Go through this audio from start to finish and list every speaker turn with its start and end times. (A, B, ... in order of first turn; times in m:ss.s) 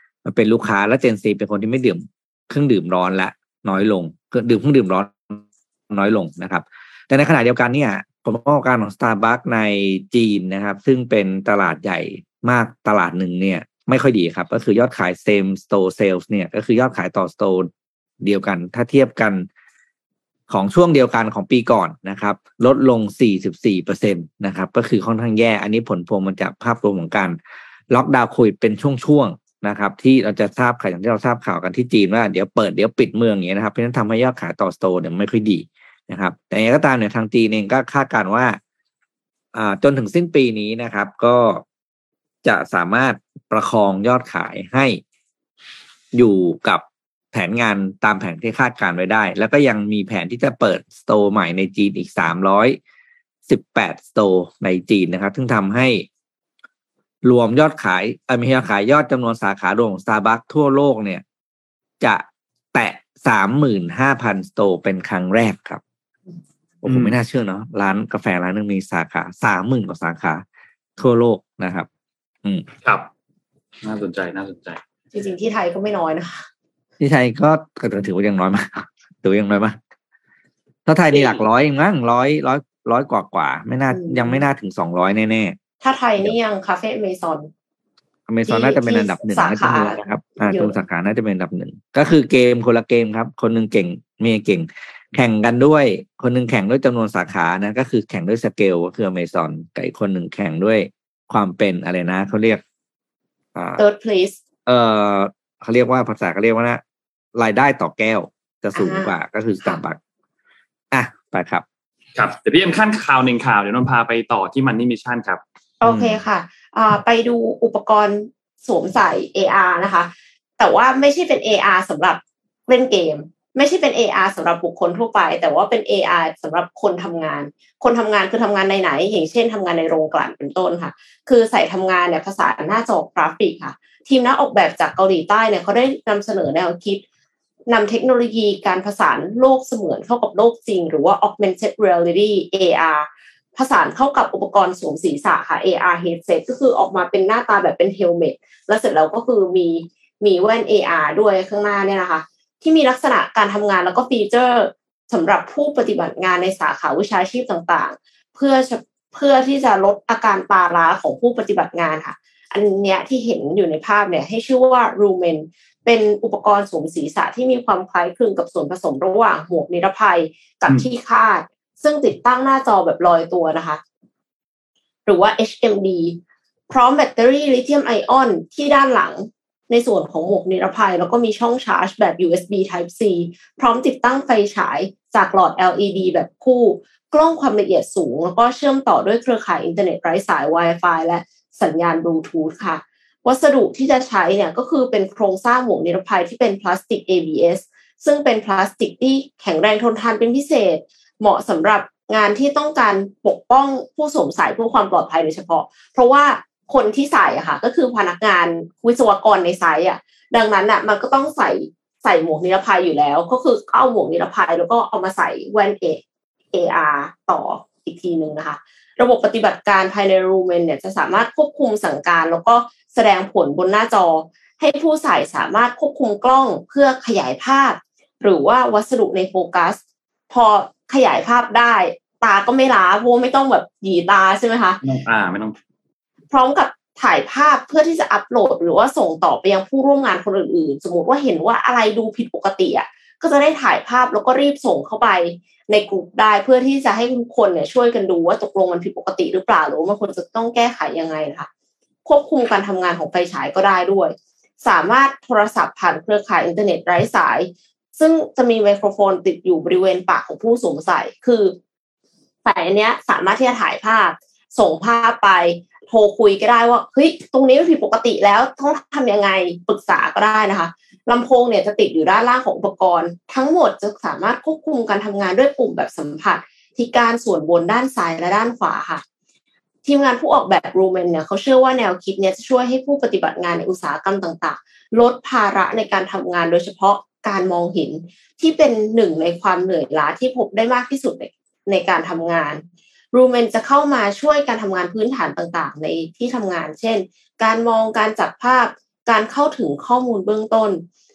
0:00.2-0:17.7 A
0:18.2-0:19.5 A
0:20.5-0:27.4 A
0:27.9-0:38.6 A
0:39.5-0:41.6 A
0:42.4-0:45.0 A
0:46.1-0:52.8 A
0:53.5-0:56.0 A
0:57.2-1:01.2 A
1:02.0-1:05.8 A
1:06.8-1:10.4 A
1:06.8-1:07.2 B
1:11.0-1:11.9 A
1:13.8-1:14.8 B
1:15.1-1:16.4 C
1:17.0-1:19.8 A
1:20.8-1:25.6 A
1:21.1-1:21.4 C
1:23.9-1:24.4 C
1:25.8-1:27.5 C
1:28.3-1:42.6 A
1:28.5-1:30.8 C
1:43.5-1:43.8 A
1:43.8-1:44.4 C
1:44.6-1:46.8 A
1:47.3-1:50.0 A
1:48.7-1:49.1 C
1:50.9-1:51.6 A
1:52.1-1:55.4 B
1:55.8-2:17.0 C
2:17.7-2:53.8 C
2:55.0-2:56.2 C
2:56.7-3:36.0 C
3:36.5-3:54.8 C
3:54.8-3:55.6 B
3:56.3-4:11.5 C
4:12.0-4:21.6 C
4:22.4-4:39.0 C
4:39.8-5:00.8 C